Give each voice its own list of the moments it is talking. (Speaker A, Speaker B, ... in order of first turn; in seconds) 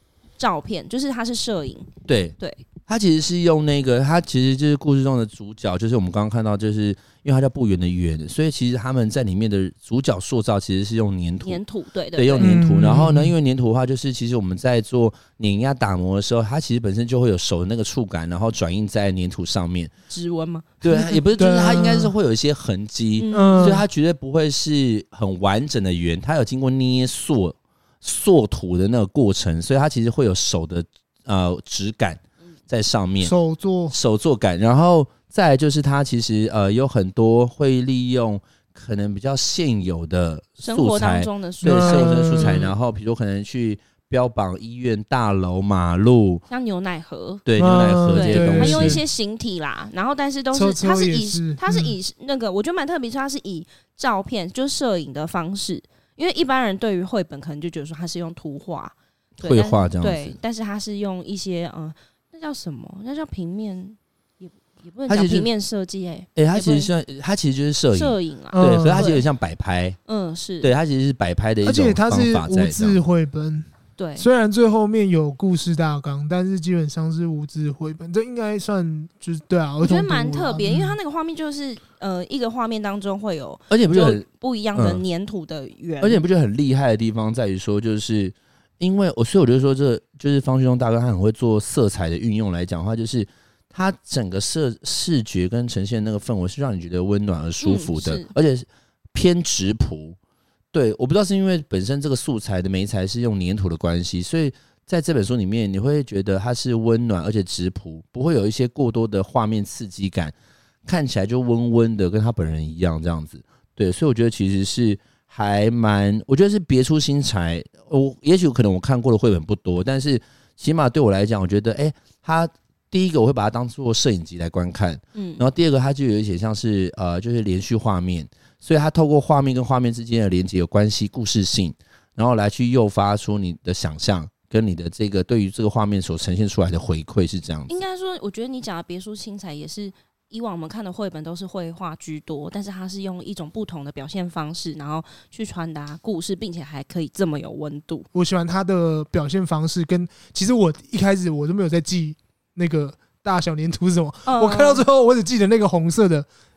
Speaker A: 0.4-2.6, 11.4-12.6, 20.1-20.8, 23.2-23.8, 40.6-42.7, 46.5-47.4, 48.1-66.9, 67.9-69.2, 70.1-70.7, 74.0-74.3, 79.8-86.2, 97.6-98.3, 125.1-125.4, 137.7-148.1, 154.2-154.8
Speaker B: 2.0-11.6, 12.2-19.9, 20.8-33.3, 33.9-46.4, 47.5-49.0, 59.4-60.4, 65.1-65.5, 66.3-70.0, 70.6-73.0, 83.7-85.0, 86.0-100.2, 100.7-110.3, 110.8-137.7
Speaker C: 12.4-13.3, 21.0-22.1, 23.3-23.8, 33.2-33.9, 41.6-42.7, 47.6-49.0, 50.5-52.0, 68.5-69.1, 71.6-73.7, 74.2-81.0, 148.1-156.3